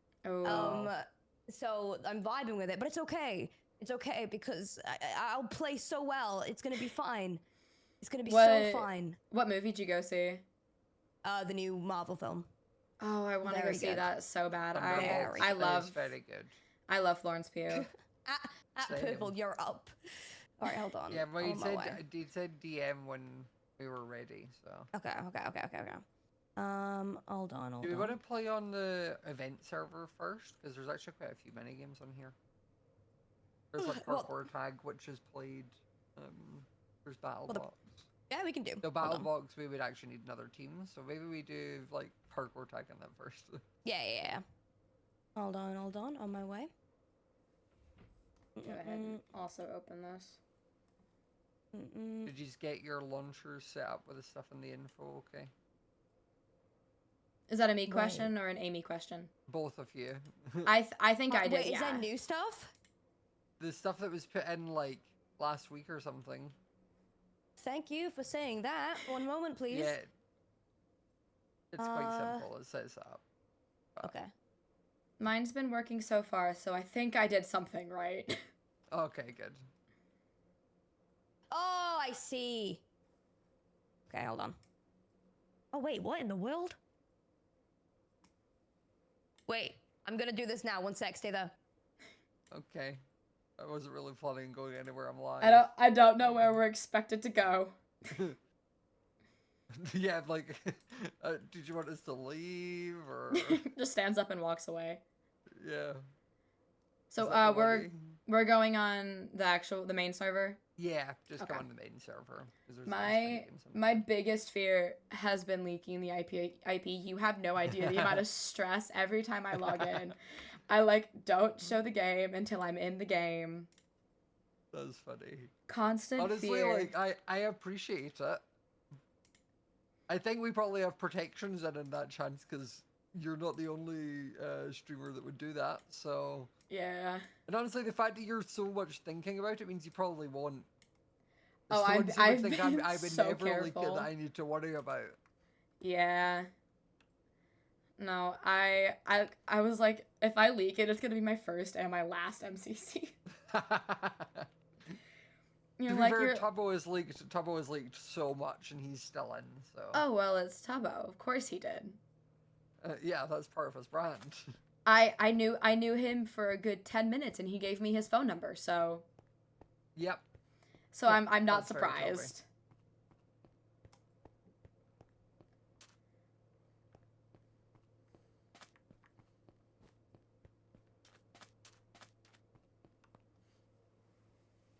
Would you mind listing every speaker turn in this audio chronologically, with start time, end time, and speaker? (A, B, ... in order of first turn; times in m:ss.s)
0:00.2-0:00.9 A
0:00.4-0:07.4 B
0:00.4-0:00.9 C
0:08.0-0:09.2 B
0:08.3-0:10.4 A
0:11.2-0:12.5 B
0:13.0-0:16.1 A
0:13.4-0:14.1 B
0:14.7-0:16.6 C
0:14.9-0:15.6 B
0:16.9-0:17.9 A
0:17.7-0:19.9 B
0:18.8-0:19.4 C
0:20.6-0:22.0 B
0:21.1-0:24.9 C
0:24.9-0:26.0 B
0:26.6-0:28.2 B
0:27.8-0:32.4 C
0:33.7-0:38.1 C
0:33.8-0:34.3 B
0:38.3-0:39.3 B
0:38.8-0:43.6 C
0:43.8-0:44.4 B
0:45.4-0:46.7 B
0:48.6-0:49.2 B
0:48.6-0:50.4 A
0:51.7-0:52.3 B
0:52.3-0:55.5 C
0:57.5-0:59.3 A
0:57.9-0:58.3 B
0:59.5-1:00.7 C
1:00.7-1:02.1 A
1:01.3-1:02.7 B
1:03.6-1:06.6 C
1:07.6-1:10.0 B
1:09.7-1:10.1 C
1:11.7-1:13.2 C
1:11.8-1:12.5 B
1:14.0-1:14.3 B
1:15.2-1:18.4 A
1:18.9-1:19.6 C
1:21.5-1:22.8 B
1:24.1-1:24.6 B
1:25.7-1:26.8 B
1:29.5-1:31.6 B
1:32.5-1:33.0 C
1:33.6-1:35.7 C
1:35.4-1:38.2 A
1:36.2-1:36.6 C
1:39.8-1:43.6 C
1:43.3-1:45.0 A
1:45.6-1:46.0 C
1:47.1-1:50.6 A
1:47.2-1:48.2 C
1:50.8-1:54.0 C
1:51.4-1:51.7 A
1:52.9-2:03.7 A
1:57.8-1:58.1 C
1:59.7-2:00.0 C
2:04.7-2:05.5 C
2:05.7-2:06.9 A
2:06.2-2:08.4 C
2:10.1-2:16.5 C
2:16.7-2:17.3 A
2:17.5-2:20.7 C
2:21.7-2:24.1 A
2:21.7-2:25.2 C
2:25.8-2:26.5 A
2:28.0-2:33.1 A
2:33.5-2:34.9 C
2:35.8-2:36.5 A
2:35.9-2:40.0 C
2:39.9-2:42.0 A
2:42.8-2:44.5 C
2:44.9-2:49.1 A
2:50.0-2:50.2 C
2:50.9-2:52.5 A
2:51.1-2:52.3 C